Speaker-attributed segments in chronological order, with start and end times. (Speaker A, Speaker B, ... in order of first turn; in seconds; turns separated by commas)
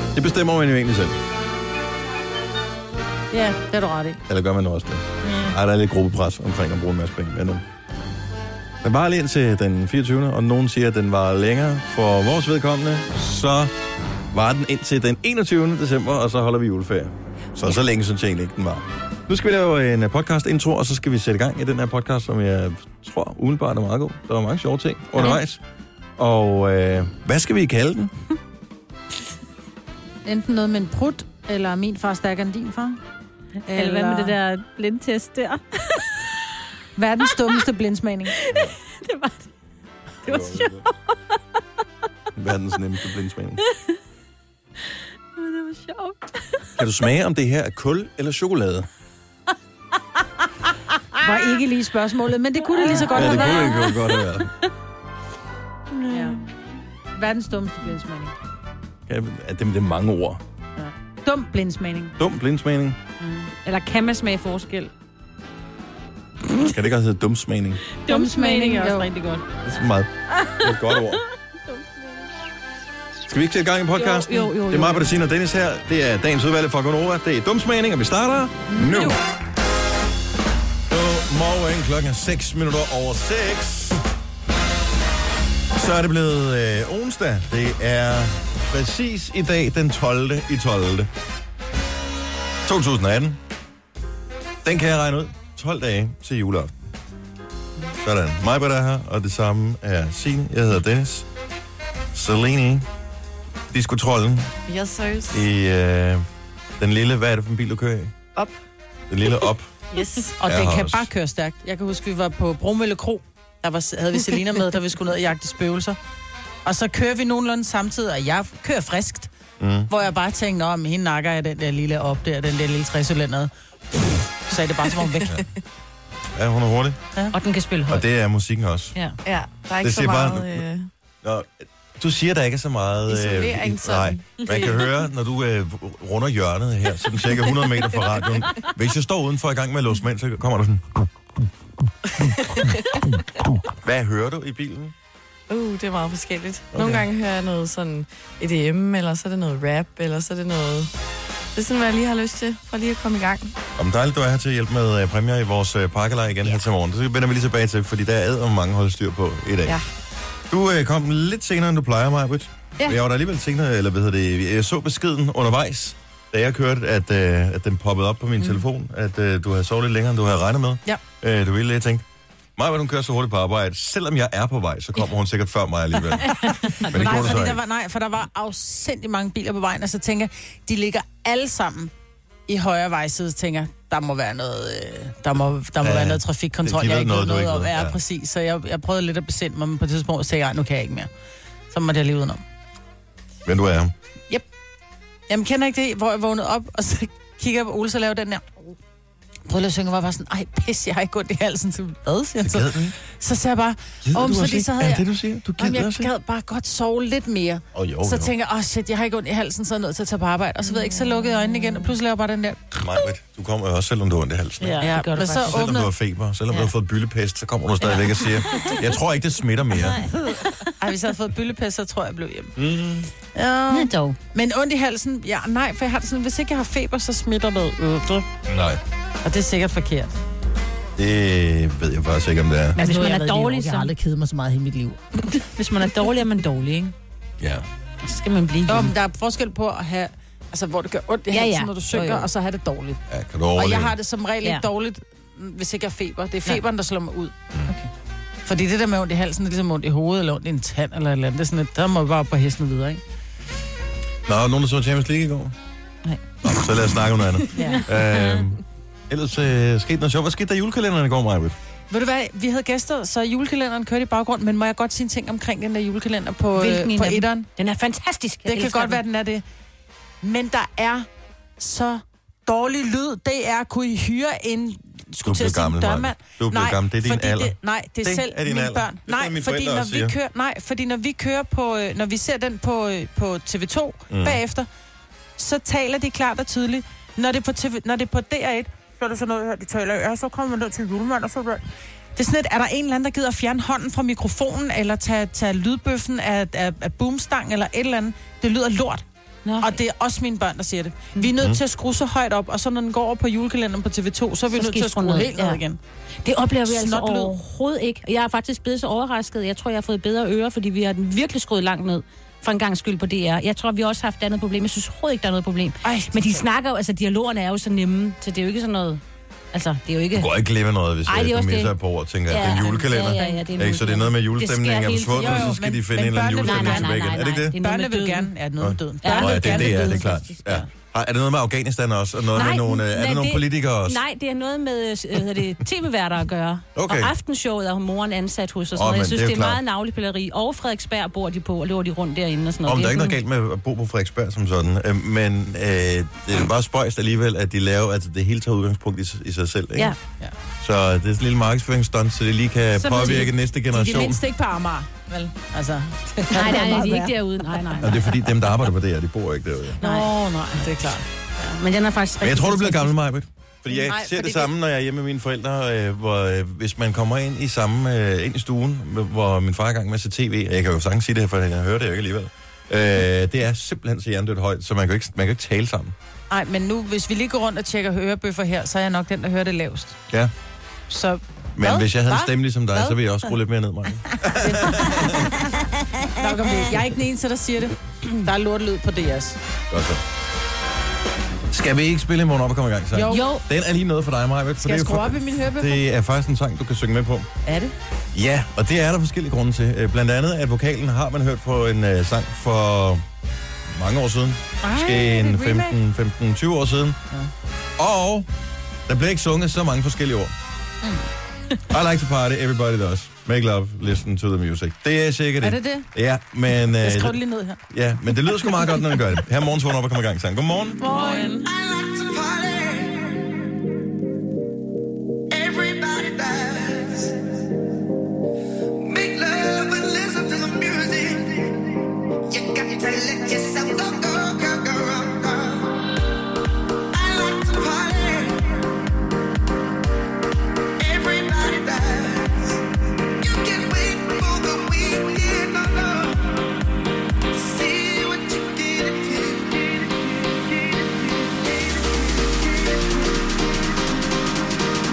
Speaker A: 0.1-1.2, Speaker B: 3.3-4.2, Speaker A: 4.3-7.6, Speaker B: 5.2-5.5, Speaker A: 8.8-13.7, Speaker A: 14.3-25.6, Speaker A: 26.2-28.1, Speaker B: 30.2-33.0, Speaker B: 33.7-34.3, Speaker C: 33.7-36.3, Speaker B: 37.0-38.3, Speaker C: 38.4-39.5, Speaker A: 38.5-38.8, Speaker C: 40.2-40.9, Speaker A: 40.2-40.8, Speaker A: 42.3-43.6, Speaker C: 45.4-46.7, Speaker A: 46.8-48.9, Speaker B: 51.2-53.8, Speaker C: 52.8-54.0, Speaker A: 53.1-54.5, Speaker C: 55.9-56.4, Speaker B: 56.1-56.4, Speaker B: 57.1-58.3, Speaker A: 59.1-60.4, Speaker B: 60.8-62.2, Speaker A: 62.2-63.0, Speaker B: 63.2-63.5, Speaker C: 63.6-64.9, Speaker A: 66.6-67.8, Speaker C: 67.9-69.2, Speaker B: 68.1-69.4, Speaker A: 69.6-71.2, Speaker A: 73.2-79.2, Speaker C: 74.0-75.1, Speaker A: 80.9-84.0, Speaker A: 85.7-91.1, Speaker A: 92.6-93.4, Speaker A: 94.6-96.7, Speaker A: 97.9-101.3, Speaker A: 102.1-102.9, Speaker A: 103.7-104.5, Speaker D: 104.7-105.4, Speaker A: 105.3-106.2, Speaker A: 106.8-108.1, Speaker A: 109.1-109.8, Speaker D: 109.9-110.4, Speaker A: 110.4-111.1, Speaker B: 110.4-116.0, Speaker B: 116.7-119.3, Speaker A: 119.6-119.9, Speaker B: 119.9-125.4, Speaker A: 126.3-127.0, Speaker C: 127.3-128.0, Speaker A: 127.9-128.9, Speaker D: 129.2-130.9, Speaker A: 129.8-130.6, Speaker A: 131.2-141.0, Speaker D: 133.1-134.8, Speaker D: 142.2-142.8, Speaker A: 143.7-144.9, Speaker D: 145.5-150.9, Speaker A: 146.7-147.1, Speaker D: 151.5-153.5, Speaker A: 153.8-159.8, Speaker A: 160.5-172.0, Speaker A: 172.6-177.6, Speaker B: 176.3-181.9, Speaker B: 182.5-191.1, Speaker A: 185.8-188.0, Speaker B: 191.7-192.4, Speaker A: 193.4-193.9, Speaker B: 195.3-198.6, Speaker B: 199.4-212.7, Speaker A: 202.4-202.9, Speaker A: 204.1-206.1, Speaker A: 207.7-208.3, Speaker C: 210.8-211.9, Speaker A: 212.8-214.9, Speaker C: 214.6-215.6, Speaker B: 214.8-215.9, Speaker A: 215.4-220.0, Speaker C: 219.9-220.7, Speaker B: 220.8-222.6, Speaker A: 222.6-223.1, Speaker B: 223.3-228.3, Speaker C: 223.7-224.2, Speaker A: 228.5-228.8, Speaker B: 229.2-230.2, Speaker A: 231.0-232.8, Speaker C: 232.8-233.9, Speaker B: 232.8-235.0, Speaker C: 235.2-236.9, Speaker A: 237.4-237.7, Speaker C: 238.0-238.9, Speaker B: 238.7-243.0, Speaker C: 241.3-242.3, Speaker A: 243.1-243.9, Speaker B: 243.5-247.3, Speaker B: 248.4-253.0, Speaker A: 254.3-255.6, Speaker C: 256.1-256.5, Speaker A: 256.4-261.6, Speaker C: 257.5-258.4, Speaker B: 257.6-257.8, Speaker B: 261.9-267.5, Speaker C: 266.6-269.0, Speaker B: 268.4-269.4, Speaker B: 270.2-271.1, Speaker B: 271.6-284.7, Speaker A: 275.2-280.1, Speaker A: 284.1-284.4, Speaker B: 285.4-299.0, Speaker C: 299.4-299.8, Speaker B: 299.6-305.8, Speaker C: 304.5-305.6, Speaker C: 306.2-319.0, Speaker B: 306.6-307.3, Speaker B: 315.8-316.4, Speaker C: 319.5-320.3, Speaker A: 320.1-327.6, Speaker C: 321.1-321.7, Speaker C: 322.3-325.6, Speaker B: 325.2-330.1, Speaker C: 326.4-328.3, Speaker A: 328.6-334.0, Speaker C: 329.0-330.6, Speaker C: 332.3-343.2, Speaker A: 336.8-337.1, Speaker A: 338.8-339.6, Speaker A: 342.6-349.9, Speaker A: 350.6-354.2, Speaker B: 352.8-357.9, Speaker C: 356.3-358.2, Speaker A: 357.8-359.8, Speaker B: 359.8-361.1, Speaker C: 359.8-360.6, Speaker C: 361.4-362.9, Speaker A: 362.2-375.9, Speaker B: 363.7-364.5, Speaker B: 376.3-380.0, Speaker B: 380.9-383.0, Speaker A: 381.6-385.3, Speaker B: 384.3-385.5, Speaker B: 386.1-389.4, Speaker A: 389.7-390.0, Speaker A: 391.5-397.3, Speaker B: 392.9-393.3, Speaker C: 393.1-393.4, Speaker B: 394.6-395.8, Speaker B: 397.4-397.7, Speaker A: 398.1-403.0, Speaker A: 403.7-407.0, Speaker B: 404.6-405.8, Speaker A: 407.8-408.3, Speaker A: 408.9-410.3, Speaker A: 411.7-420.8, Speaker B: 415.4-415.9, Speaker B: 416.8-417.6, Speaker B: 420.8-421.5, Speaker E: 421.4-423.3, Speaker E: 425.3-427.2, Speaker E: 428.8-435.9, Speaker E: 436.9-438.7, Speaker E: 440.8-442.6, Speaker E: 443.2-446.5, Speaker E: 447.3-453.1